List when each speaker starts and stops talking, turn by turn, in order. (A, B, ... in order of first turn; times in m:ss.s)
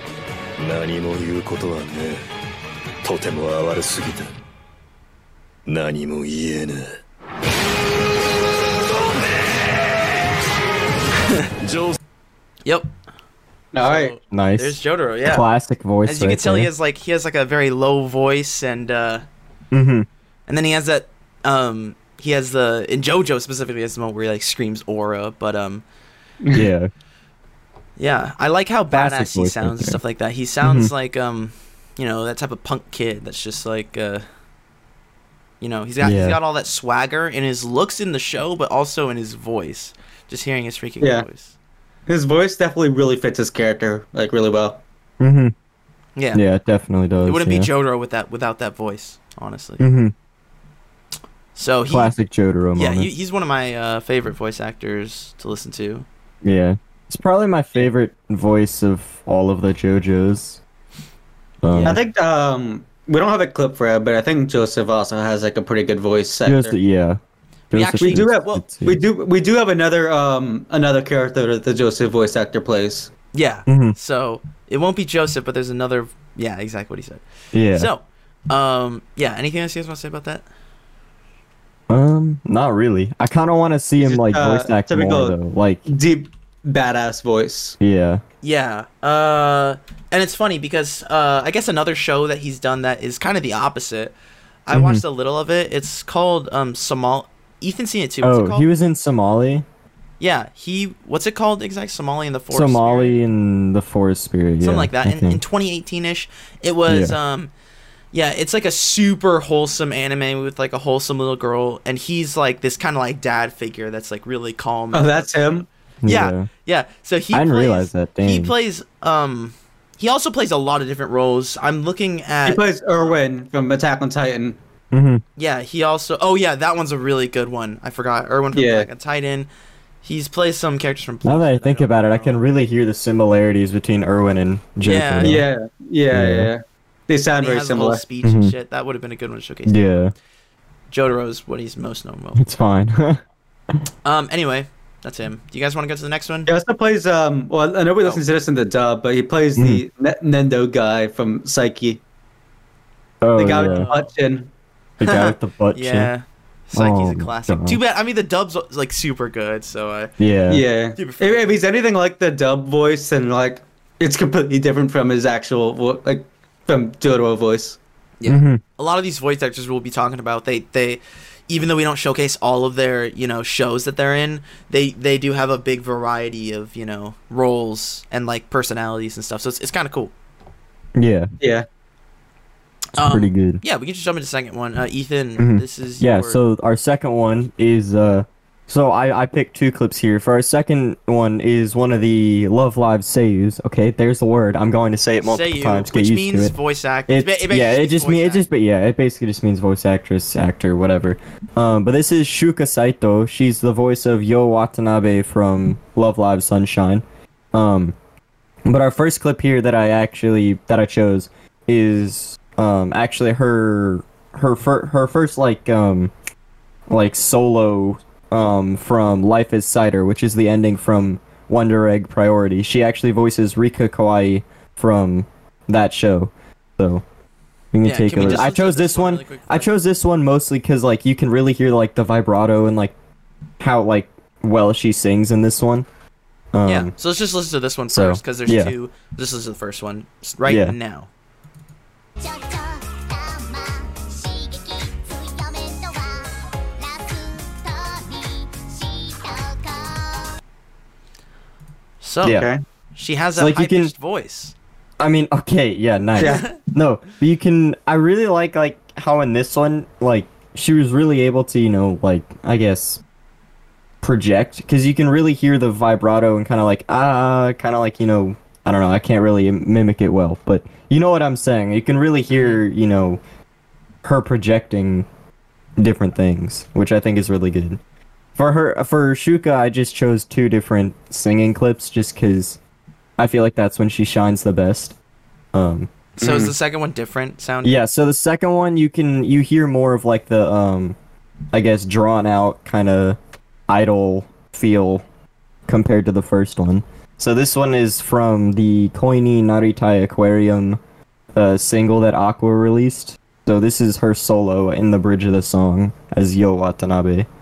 0:00.6-0:02.2 A
0:03.0-0:04.3 A
0:05.7-0:06.9 A
0:11.6-0:12.0 A
0:12.7-0:12.9 B
0:13.7-0:14.2 C
0:13.8-0:15.4 B
0:14.3-0:16.7 D
0:16.0-0:19.2 B
0:19.7-0:20.1 D
0:20.5-0:25.8 B
0:26.5-0:26.9 D
0:28.0-0:34.2 B
0:28.9-0:30.0 D
0:30.6-0:30.9 D
0:35.6-0:41.5 B
0:36.0-0:36.4 D
0:41.0-0:41.3 C
0:42.1-0:44.8 C
0:45.2-0:45.6 D
0:46.2-0:46.4 B
0:46.3-0:47.7 D
0:47.2-0:49.8 B
0:49.8-0:50.1 D
0:51.6-0:52.2 B
0:51.9-0:53.1 D
0:52.8-0:56.1 B
0:56.4-1:00.6 D
1:01.6-1:02.0 D
1:01.7-1:02.0 B
1:01.8-1:06.8 C
1:06.4-1:07.2 D
1:07.7-1:09.0 D
1:07.7-1:08.6 B
1:08.0-1:13.1 C
1:13.3-1:20.5 B
1:13.7-1:14.0 D
1:17.5-1:17.9 D
1:21.9-1:25.9 D
1:24.0-1:25.4 C
1:25.9-1:27.8 C
1:27.8-1:28.2 D
1:28.4-1:34.1 B
1:34.7-1:38.7 B
1:34.7-1:35.0 D
1:38.2-1:39.6 D
1:40.2-1:43.2 B
1:42.5-1:45.4 D
1:44.6-1:47.5 B
1:46.9-1:47.2 D
1:48.1-2:02.6 B
1:54.9-1:55.7 C
1:56.0-1:56.5 D
1:57.3-1:58.5 D
2:02.5-2:04.6 C
2:04.9-2:05.2 D
2:05.4-2:09.5 B
2:08.5-2:08.9 C
2:10.0-2:12.4 B
2:11.2-2:15.4 D
2:14.8-2:15.4 B
2:15.2-2:18.0 C
2:16.1-2:16.5 D
2:17.4-2:19.8 B
2:18.2-2:18.5 D
2:19.7-2:20.1 D
2:20.9-2:22.4 B
2:22.4-2:23.2 D
2:24.0-2:26.5 B
2:26.5-2:32.0 C
2:29.6-2:29.8 D
2:33.2-2:33.9 D
2:33.4-2:34.5 C
2:33.6-2:34.1 B
2:35.0-2:36.1 D
2:35.0-2:40.1 B
2:36.7-2:37.8 D
2:40.2-2:40.6 D
2:40.5-2:47.8 C
2:41.0-2:41.6 B
2:48.2-3:00.1 B
2:48.3-2:48.6 D
3:01.0-3:01.3 D
3:03.0-3:06.4 B
3:03.0-3:03.6 D
3:05.4-3:16.6 D
3:15.2-3:18.4 B
3:17.1-3:28.0 D
3:28.7-3:36.1 D
3:36.9-3:47.0 D
3:47.7-3:52.9 D
3:47.8-3:49.7 B
3:53.6-3:55.9 D
3:56.5-3:56.9 D
3:56.6-4:01.1 B
3:57.9-3:58.7 D
4:00.4-4:00.8 D
4:02.2-4:10.4 E
4:12.0-4:12.4 B
4:12.2-4:12.5 D
4:12.2-4:12.6 C
4:13.0-4:14.5 B
4:13.4-4:13.9 D
4:15.0-4:23.0 D
4:16.2-4:16.5 C
4:16.2-4:16.6 B
4:24.0-4:33.2 D
4:32.3-4:32.6 B
4:34.0-4:35.1 D
4:35.8-4:37.8 D
4:38.4-4:42.6 D
4:43.2-4:45.0 D
4:45.5-4:45.9 D
4:46.2-4:47.8 B
4:46.2-4:46.5 C
4:47.6-4:51.0 D
4:51.5-4:53.2 D
4:53.7-4:55.0 D
4:55.7-5:00.8 D
5:01.4-5:07.3 D